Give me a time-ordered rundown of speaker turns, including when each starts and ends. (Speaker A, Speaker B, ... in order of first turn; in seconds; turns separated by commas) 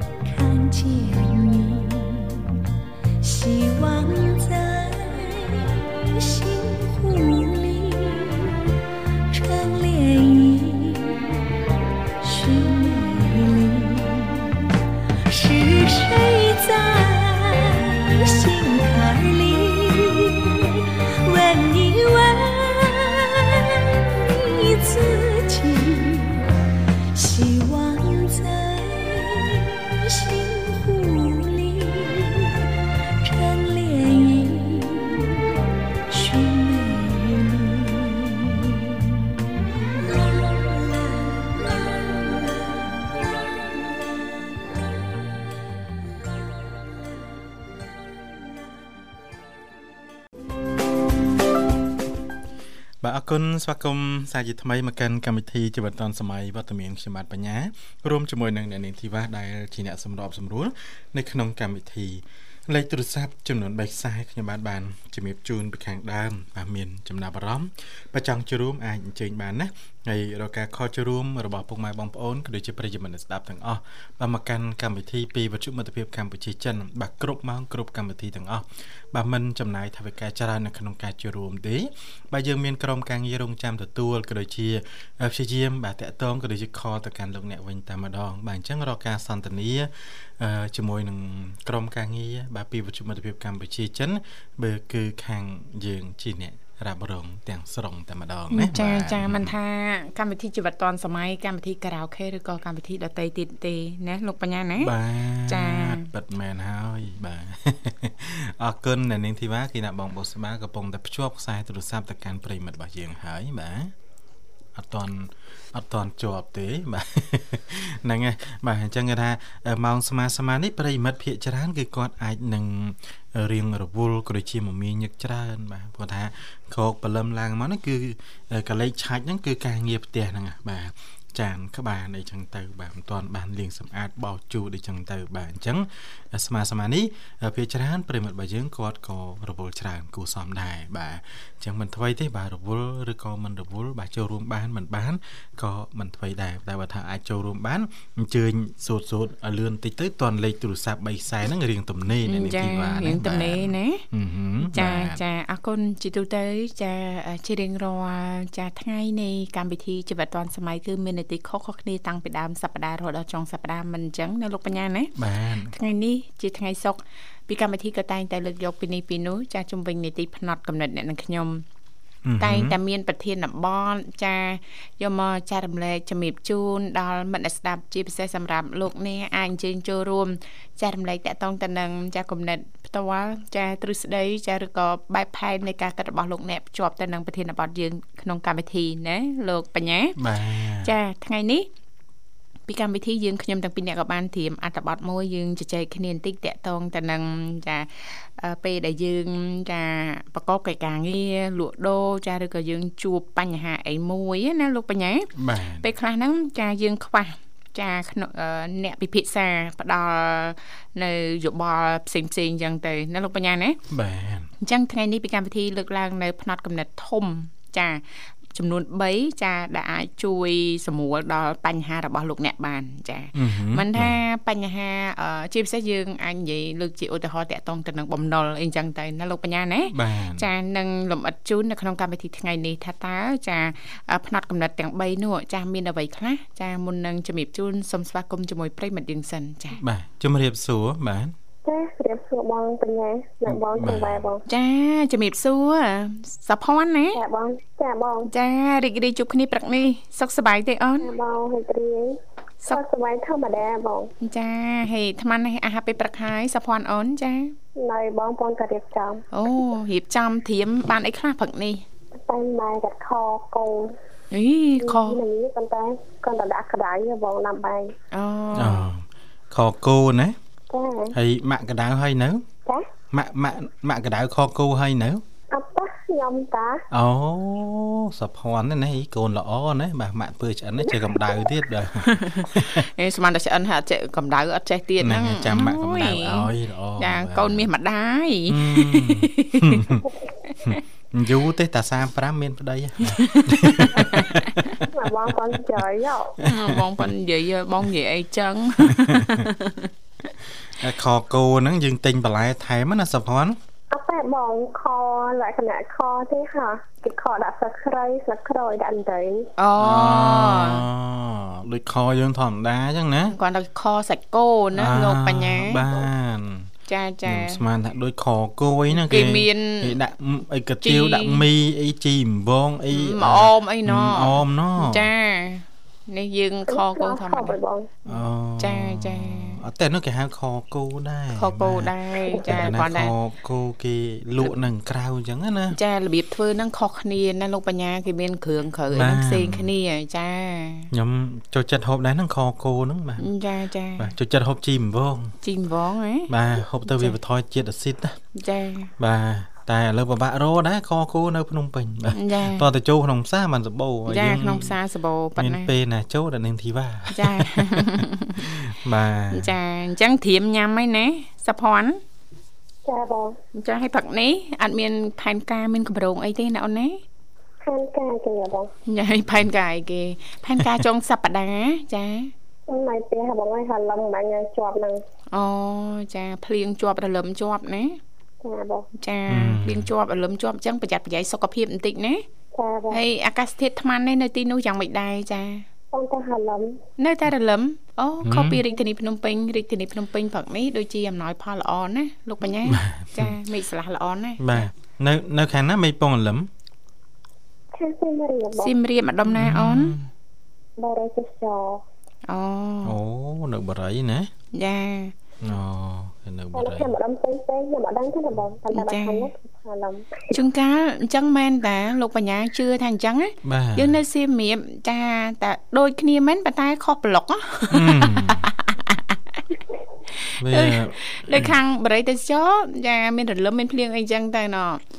Speaker A: 0.2-2.5, Speaker A: 3.2-8.6, Speaker A: 9.3-11.3, Speaker A: 12.2-14.6, Speaker A: 15.3-26.5, Speaker A: 27.1-32.7, Speaker A: 33.2-35.3, Speaker A: 36.1-39.1, Speaker B: 53.0-99.5, Speaker C: 98.5-104.9, Speaker B: 104.8-113.9, Speaker C: 105.5-106.1, Speaker B: 114.8-155.2, Speaker C: 152.3-154.1, Speaker C: 154.6-165.1, Speaker B: 165.2-165.7, Speaker C: 165.7-171.7, Speaker B: 172.2-172.8, Speaker C: 172.4-190.2, Speaker B: 190.2-190.9, Speaker C: 190.8-191.7, Speaker C: 192.7-205.3, Speaker B: 205.3-205.9, Speaker C: 205.8-213.8, Speaker B: 213.9-214.5, Speaker C: 214.6-239.8, Speaker B: 223.3-224.2, Speaker B: 229.9-230.5, Speaker B: 239.8-241.3, Speaker D: 241.7-244.4, Speaker B: 243.5-244.3, Speaker C: 244.5-247.2, Speaker D: 247.1-248.3, Speaker C: 248.3-251.1, Speaker D: 251.0-254.1, Speaker C: 254.2-257.6, Speaker D: 257.8-259.2, Speaker C: 259.3-261.9, Speaker D: 262.2-264.0, Speaker C: 264.3-265.2, Speaker D: 264.8-267.9, Speaker C: 268.1-268.9, Speaker B: 268.6-270.4, Speaker D: 270.7-271.1, Speaker B: 271.1-272.4, Speaker B: 273.1-275.2, Speaker D: 275.5-276.9, Speaker B: 276.9-282.9, Speaker C: 282.0-289.9, Speaker B: 285.0-287.7, Speaker B: 288.5-290.1, Speaker B: 290.6-295.1, Speaker C: 293.1-294.6, Speaker D: 294.9-296.4, Speaker B: 296.4-297.1, Speaker C: 296.4-299.9, Speaker B: 298.9-299.5, Speaker B: 300.7-303.6, Speaker D: 303.9-309.5, Speaker C: 309.6-310.8, Speaker B: 309.8-313.4, Speaker C: 313.3-315.8, Speaker B: 314.7-316.7, Speaker C: 316.9-317.6, Speaker B: 317.2-325.1, Speaker C: 318.9-319.9, Speaker C: 320.8-321.4, Speaker C: 322.9-327.6, Speaker D: 326.7-327.9, Speaker B: 328.1-335.8, Speaker C: 328.6-329.6, Speaker C: 331.4-333.1, Speaker C: 335.7-340.9, Speaker B: 338.9-339.7, Speaker B: 340.9-343.3, Speaker C: 343.2-344.1, Speaker B: 344.0-345.4, Speaker C: 345.4-346.3, Speaker B: 346.3-348.2, Speaker C: 346.9-347.1, Speaker C: 348.4-348.9, Speaker B: 349.0-354.8, Speaker C: 352.1-352.7, Speaker C: 354.1-355.7, Speaker B: 355.4-359.6, Speaker C: 357.1-358.5, Speaker C: 359.3-362.0, Speaker D: 362.9-363.4, Speaker C: 363.6-367.0, Speaker D: 367.6-368.7, Speaker C: 368.9-372.3, Speaker D: 372.7-375.0, Speaker C: 375.3-378.0, Speaker D: 378.4-378.9, Speaker C: 379.0-382.3, Speaker B: 379.3-379.9, Speaker D: 382.5-383.0, Speaker C: 382.9-385.7, Speaker D: 385.9-386.8, Speaker C: 387.0-394.6, Speaker B: 388.2-388.6, Speaker B: 392.7-393.3, Speaker B: 394.4-396.5, Speaker D: 397.7-398.7, Speaker C: 398.6-400.0, Speaker B: 399.3-400.1, Speaker D: 400.8-401.8, Speaker C: 402.3-403.0, Speaker B: 402.8-404.3, Speaker C: 404.5-405.1, Speaker B: 405.4-406.9, Speaker D: 406.5-410.3, Speaker C: 408.7-409.3, Speaker C: 410.3-419.4, Speaker B: 413.4-414.0, Speaker B: 417.7-418.5, Speaker C: 420.1-424.8, Speaker B: 420.4-421.6